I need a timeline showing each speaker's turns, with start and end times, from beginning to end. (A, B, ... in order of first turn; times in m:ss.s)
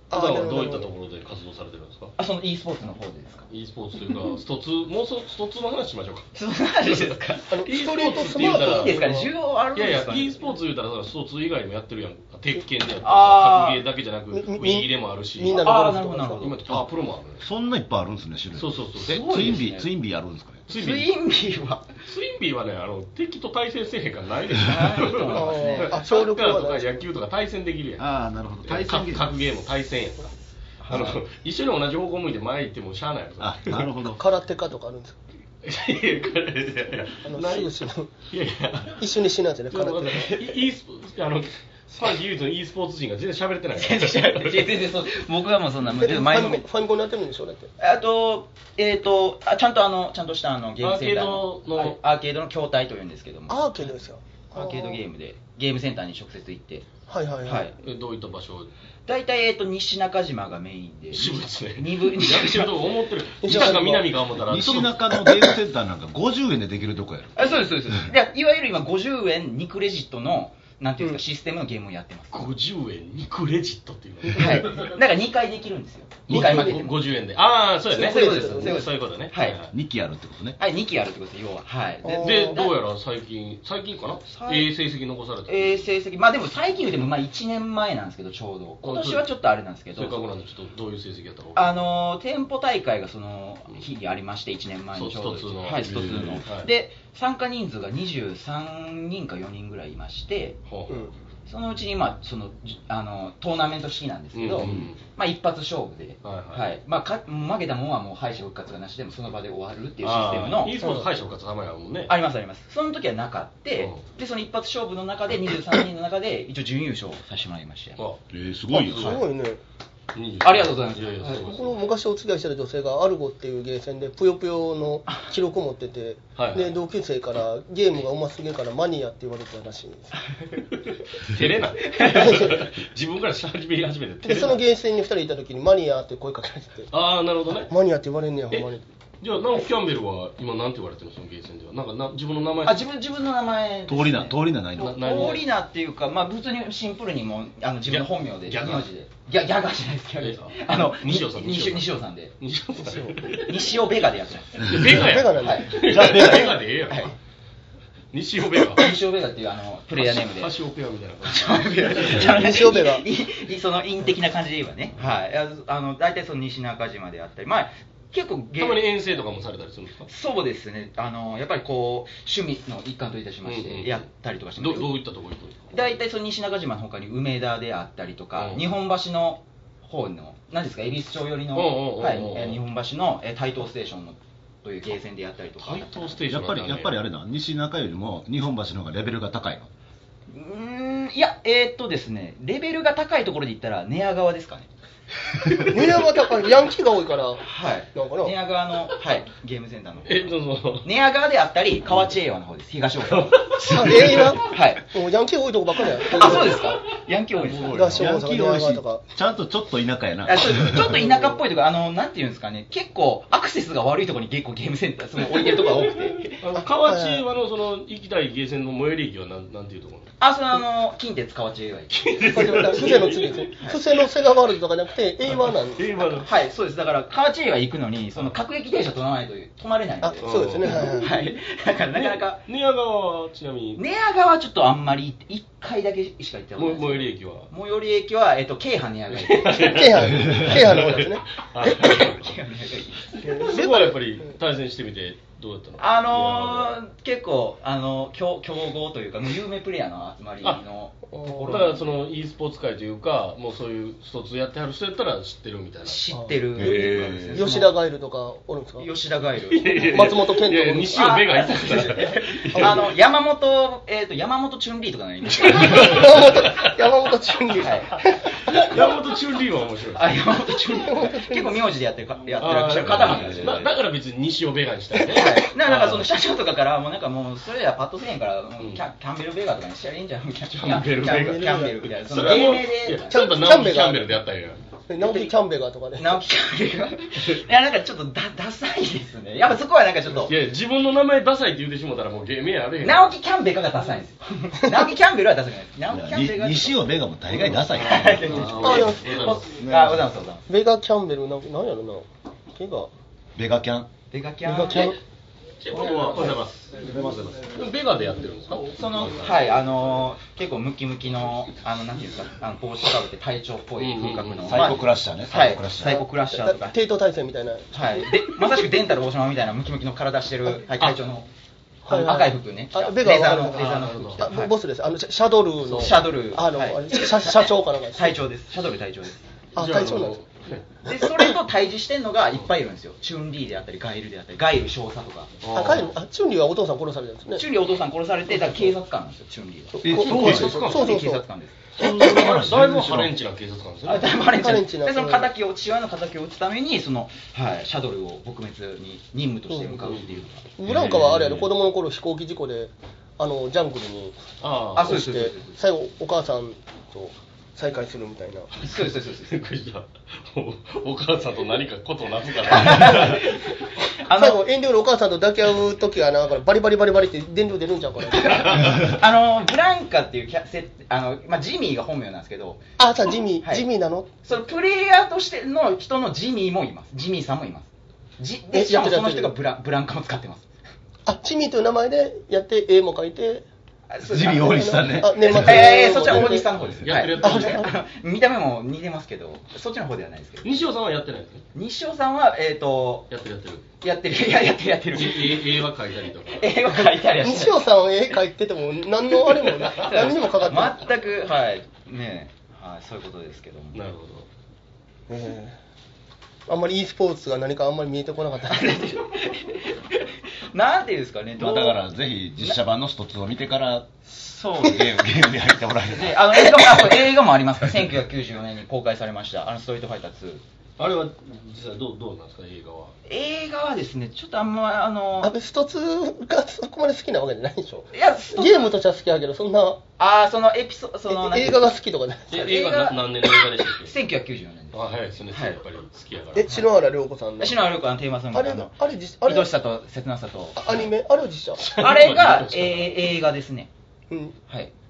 0:00.1-0:00.9 A
0:00.1-0:02.1 B
0:02.2-0:03.5 C
0:03.5-0:06.3 B
0:06.4-0:10.6 C
0:06.9-0:09.0 B
0:07.5-0:09.3 A
0:09.8-0:15.7 B
0:13.0-0:13.8 C
0:14.3-0:16.5 A
0:15.5-0:16.6 C
0:16.4-0:17.4 B
0:17.4-0:20.6 D
0:18.6-0:19.3 B
0:19.0-0:19.9 C
0:20.7-0:21.1 B
0:20.7-0:21.9 C
0:22.1-0:28.1 B
0:24.6-0:26.0 C
0:25.3-0:27.1 A
0:28.0-0:29.4 D
0:28.6-0:30.3 B
0:30.8-0:31.2 C
0:30.9-0:33.9 B
0:33.4-0:34.2 D
0:34.0-0:35.2 A
0:35.6-0:37.8 B
0:37.2-0:38.1 A
0:38.3-0:39.1 B
0:39.0-0:40.6 A
0:39.7-0:44.8 B
0:43.7-0:46.6 C
0:46.0-0:47.7 A
0:47.8-0:53.9 C
0:50.8-0:52.0 B
0:53.5-0:55.0 A
0:54.5-0:56.9 C
0:57.1-0:57.7 A
0:57.5-0:57.7 C
0:57.8-0:58.7 B
0:59.1-1:02.7 C
1:01.1-1:05.0 B
1:03.4-1:04.1 A
1:04.5-1:07.4 D
1:07.4-1:12.5 C
1:12.3-1:14.9 B
1:14.4-1:17.0 C
1:16.3-1:19.7 B
1:17.9-1:18.9 A
1:17.9-1:19.6 C
1:19.7-1:20.6 D
1:20.6-1:22.7 C
1:22.0-1:22.6 A
1:22.2-1:25.9 B
1:24.3-1:24.7 C
1:25.5-1:30.2 C
1:28.8-1:29.3 B
1:30.0-1:31.8 B
1:31.6-1:40.6 C
1:34.9-1:36.7 B
1:40.7-1:41.1 B
1:41.5-1:50.8 C
1:44.3-1:45.0 B
1:46.2-1:46.8 B
1:50.0-1:52.1 B
1:50.8-1:51.1 A
1:52.1-1:58.0 C
1:53.8-1:54.0 B
1:58.0-1:58.2 B
1:58.3-1:59.2 D
1:58.7-1:59.6 A
1:58.8-1:59.2 B
2:00.1-2:01.8 B
2:00.4-2:01.4 C
2:01.2-2:10.2 A
2:06.4-2:06.8 B
2:11.2-2:14.6 B
2:12.0-2:12.3 C
2:12.1-2:12.6 A
2:14.2-2:16.9 A
2:16.9-2:17.7 B
2:17.7-2:18.8 A
2:19.2-2:22.8 B
2:22.6-2:32.3 C
2:23.9-2:25.2 D
2:24.8-2:25.5 B
2:27.9-2:28.9 B
2:30.2-2:33.7 B
2:32.8-2:33.2 A
2:33.4-2:34.7 C
2:34.6-2:37.1 B
2:34.9-2:36.4 A
2:35.4-2:37.1 C
2:35.8-2:36.6 D
2:38.1-2:38.9 B
2:38.8-2:40.5 C
2:40.0-2:42.4 B
2:41.2-2:48.8 C
2:42.0-2:43.1 A
2:48.6-2:50.1 B
2:50.1-2:54.9 C
2:53.4-2:55.8 B
2:55.7-3:05.8 C
2:58.4-2:58.7 B
3:01.5-3:02.6 B
3:05.6-3:07.0 B
3:06.3-3:09.7 D
3:10.3-3:14.7 C
3:15.7-3:18.4 A
3:17.4-3:24.9 C
3:20.0-3:20.9 B
3:23.2-3:24.3 B
3:23.7-3:26.8 A
3:26.1-3:28.1 C
3:27.3-3:27.9 B
3:27.7-3:29.0 A
3:27.9-3:31.1 D
3:30.2-3:36.4 C
3:36.3-3:40.1 B
3:36.6-3:37.3 A
3:40.2-3:42.9 C
3:41.9-3:43.6 B
3:42.2-3:46.2 A
3:43.5-3:43.8 C
3:45.3-3:46.3 B
3:46.2-3:52.4 C
3:50.0-3:51.1 A
3:50.2-3:51.1 B
3:51.9-3:53.8 B
3:53.8-3:59.9 C
3:56.6-3:57.5 B
3:59.1-4:02.4 B
3:59.5-4:01.3 A
4:01.6-4:03.5 C
4:03.2-4:04.4 A
4:03.3-4:06.7 B
4:05.8-4:12.0 C
4:11.1-4:11.7 A
4:11.4-4:16.0 B
4:15.8-4:17.7 C
4:16.1-4:16.4 A
4:16.6-4:17.4 D
4:17.3-4:18.9 A
4:18.8-4:20.2 C
4:19.5-4:22.9 B
4:19.9-4:21.2 A
4:20.9-4:26.4 C
4:22.5-4:22.9 A
4:25.4-4:26.0 B
4:25.8-4:28.4 A
4:27.6-4:28.0 C
4:28.5-4:30.3 B
4:30.0-4:33.7 C
4:30.7-4:31.7 A
4:32.4-4:36.1 B
4:35.1-4:43.1 C
4:40.5-4:44.6 B
4:41.0-4:41.9 A
4:43.1-4:44.1 A
4:44.9-4:46.2 A
4:45.0-4:45.3 C
4:46.0-4:50.4 C
4:50.2-4:53.1 B
4:52.8-4:56.8 C
4:55.9-4:58.8 D
4:57.5-4:59.6 B
4:57.7-5:00.5 C
4:58.3-4:59.1 A
4:59.6-5:00.1 D
5:00.5-5:02.9 A
5:03.4-5:03.9 D
5:04.1-5:05.0 C
5:04.4-5:05.0 A
5:05.6-5:09.4 B
5:05.7-5:06.4 C
5:06.8-5:07.4 D
5:08.7-5:16.7 C
5:13.8-5:14.8 B
5:14.5-5:15.9 D
5:15.8-5:18.1 A
5:17.7-5:21.3 C
5:21.8-5:28.2 A
5:21.9-5:24.5 C
5:23.6-5:24.3 B
5:25.7-5:29.2 C
5:29.6-5:30.2 A
5:29.6-5:30.7 B
5:30.8-5:35.3 C
5:35.4-5:35.9 B
5:35.5-5:37.5 A
5:37.4-5:41.7 C
5:38.3-5:38.7 A
5:39.7-5:41.2 A
5:39.8-5:40.6 D
5:40.1-5:41.0 B
5:41.8-5:44.2 B
5:41.8-5:43.1 D
5:43.8-5:50.4 C
5:44.2-5:45.3 A
5:49.5-5:49.9 A
5:49.8-5:50.1 B
5:50.6-5:54.2 A
5:50.6-5:51.5 B
5:54.4-5:55.0 B
5:54.7-5:55.6 C
5:54.8-5:58.5 A
5:58.6-6:03.4 B
5:58.6-5:59.4 C
6:02.5-6:04.4 C
6:04.1-6:08.8 A
6:08.3-6:12.6 C
6:12.8-6:14.1 A
6:13.4-6:13.7 C
6:14.2-6:20.5 C
6:18.5-6:19.4 A
6:21.1-6:23.4 A
6:23.9-6:30.5 C
6:24.0-6:26.9 D
6:24.4-6:26.5 A
6:26.8-6:27.6 B
6:27.2-6:27.7 A
6:30.4-6:31.4 B
6:31.5-6:33.1 C
6:33.1-6:33.6 B
6:33.8-6:35.6 C
6:34.9-6:36.5 B
6:36.3-6:37.6 C
6:36.7-6:40.9 A
6:39.4-6:43.8 C
6:43.7-6:44.3 B
6:45.1-6:45.6 A
6:46.5-6:48.9 A
6:48.5-6:51.8 C
6:51.4-6:53.9 D
6:54.0-6:55.3 C
6:54.6-6:57.1 D
6:55.9-7:00.4 C
7:00.8-7:03.0 B
7:03.1-7:05.3 C
7:05.2-7:09.8 A
7:07.9-7:08.7 C
7:10.0-7:11.8 C
7:11.1-7:12.4 A
7:12.3-7:13.1 C
7:12.3-7:13.9 B
7:13.8-7:14.8 C
7:14.7-7:16.6 B
7:15.3-7:15.6 C
7:16.4-7:17.7 A
7:17.4-7:20.6 C
7:18.3-7:19.5 A
7:20.6-7:21.6 A
7:21.6-7:23.2 B
7:21.8-7:23.7 C
7:24.1-7:24.4 A
7:24.5-7:24.7 C